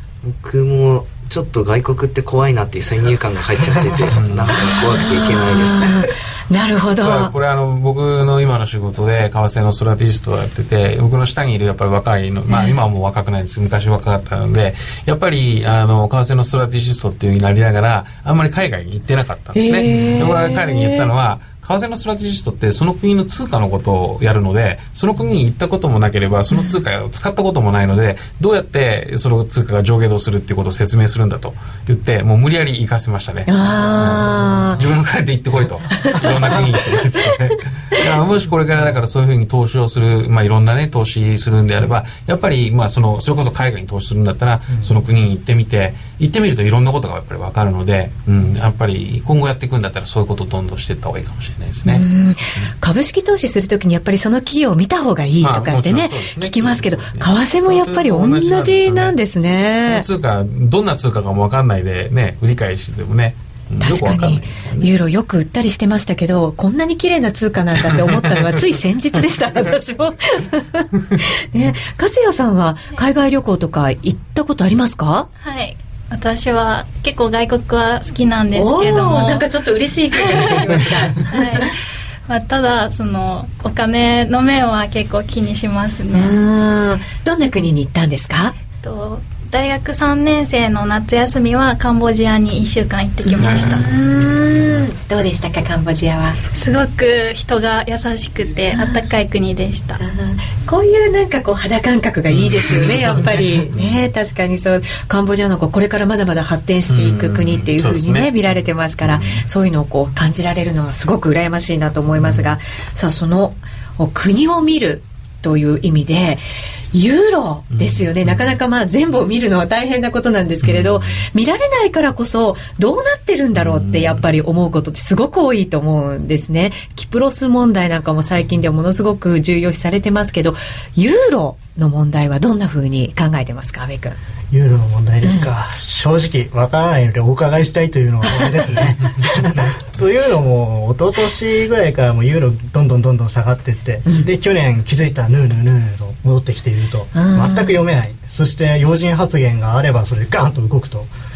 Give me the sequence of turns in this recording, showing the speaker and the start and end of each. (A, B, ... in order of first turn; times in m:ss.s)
0:00.2-0:06.0 A
0:04.1-0:04.8 B
0:04.5-0:07.3 C
0:07.0-0:52.0 B
0:12.5-0:12.7 C
0:19.5-0:21.1 C
0:26.5-0:26.7 C
0:33.5-0:34.8 C
0:36.0-0:37.3 C
0:51.8-1:00.0 C
0:55.4-0:59.1 B
0:59.8-1:04.9 B
1:03.8-1:10.9 C
1:11.4-1:15.3 C
1:15.4-1:19.5 D
1:18.5-1:21.6 C
1:20.2-1:21.8 D
1:22.3-1:26.3 D
1:26.1-1:28.6 C
1:28.8-1:33.8 D
1:33.2-1:36.4 C
1:33.4-1:34.8 B
1:36.5-1:40.0 D
1:38.7-1:39.0 C
1:40.0-2:14.2 C
1:42.3-1:44.1 B
1:46.9-1:49.4 B
1:52.2-1:52.6 B
1:57.7-1:58.5 B
2:00.6-2:01.3 B
2:03.5-2:04.3 B
2:14.5-2:31.1 E
2:18.2-2:18.7 C
2:27.1-2:27.8 C